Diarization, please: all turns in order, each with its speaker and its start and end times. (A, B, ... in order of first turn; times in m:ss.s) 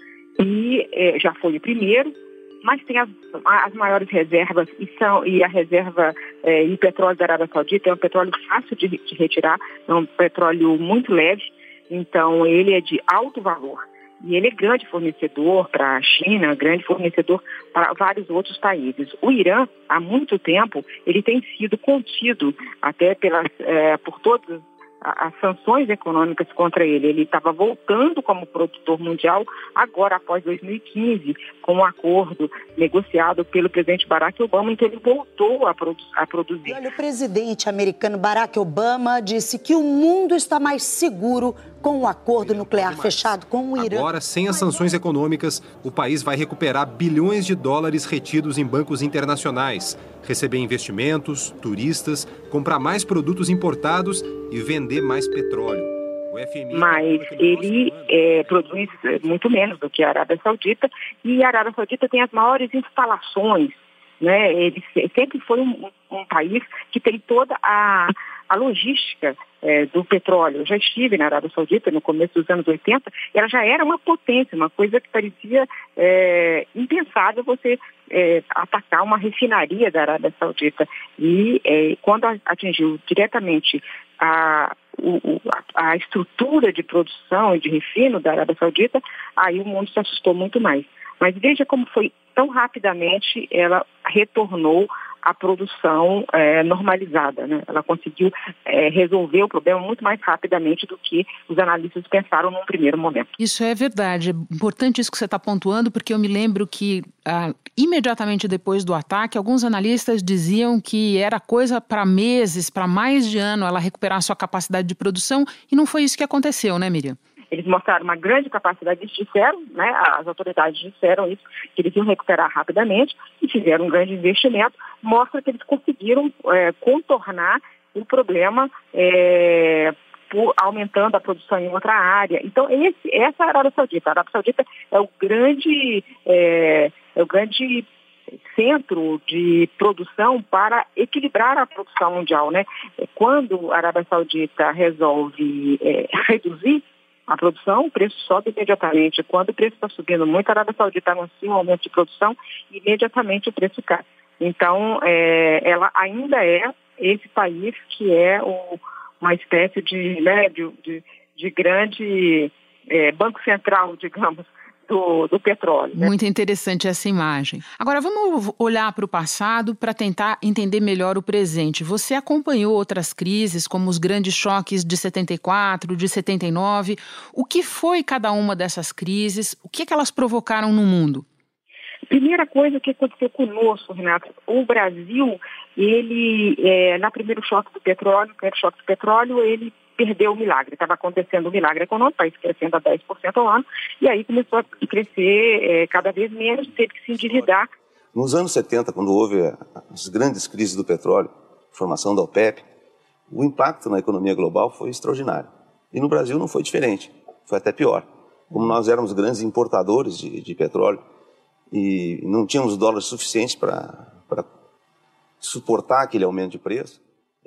0:00.4-0:36.8 A
0:36.7-0:44.0 B
0:42.2-0:59.4 C
0:56.7-1:43.3 A
1:43.4-1:57.2 D
1:57.5-2:17.8 A
2:18.5-2:46.1 A
2:46.0-3:01.2 D
3:02.1-3:17.7 A
3:18.1-3:22.6 E
3:23.3-3:31.0 E
3:31.7-3:34.4 E
3:35.4-3:37.0 E